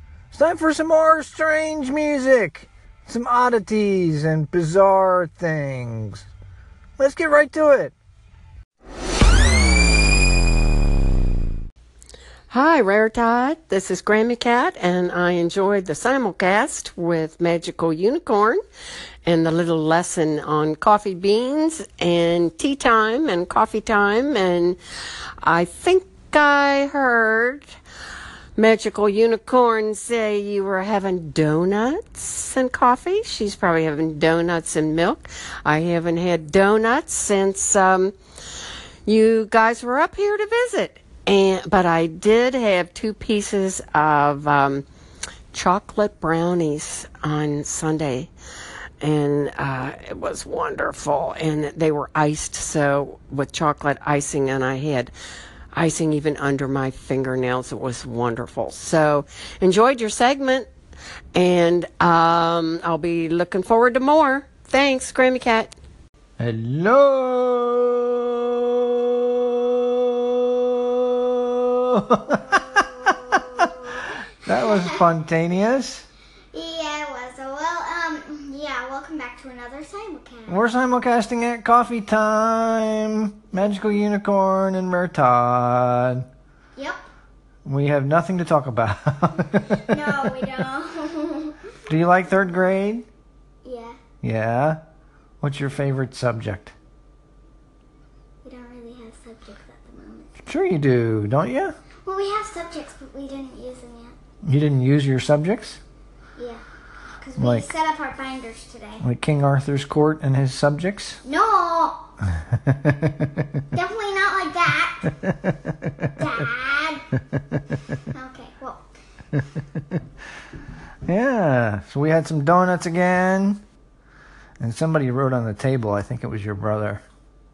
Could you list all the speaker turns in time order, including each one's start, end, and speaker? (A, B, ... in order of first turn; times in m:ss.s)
0:00.3-0:06.3 A
0:07.0-0:07.9 A
0:12.5-0:18.6 B
0:19.2-0:24.8 B
0:25.4-0:27.7 B
0:28.6-0:38.2 B
0:39.1-0:44.8 B
0:45.5-0:48.3 B
0:49.0-0:55.1 B
0:55.7-1:00.7 B
1:01.4-1:05.7 B
1:06.4-1:13.7 A
1:12.3-1:15.0 C
1:14.5-1:16.1 A
1:16.5-1:20.6 C
1:20.5-1:26.3 A
1:26.8-1:27.0 C
1:27.6-1:30.3 A
1:29.8-1:31.6 C
1:31.9-1:33.1 A
1:33.6-1:34.0 C
1:34.2-1:34.8 A
1:35.4-1:36.7 A
1:38.4-1:40.3 C
1:40.5-1:41.7 A
1:42.0-1:44.2 C
1:44.4-1:45.8 A
1:46.4-1:46.6 C
1:47.2-1:49.0 C
1:47.4-1:47.7 A
1:49.0-1:51.2 A
1:51.2-1:52.1 C
1:52.5-1:53.3 A
1:53.7-1:55.1 C
1:56.2-1:57.0 C
1:58.1-1:58.9 C
1:59.4-1:59.8 A
2:01.1-2:03.6 A
2:04.6-2:07.0 A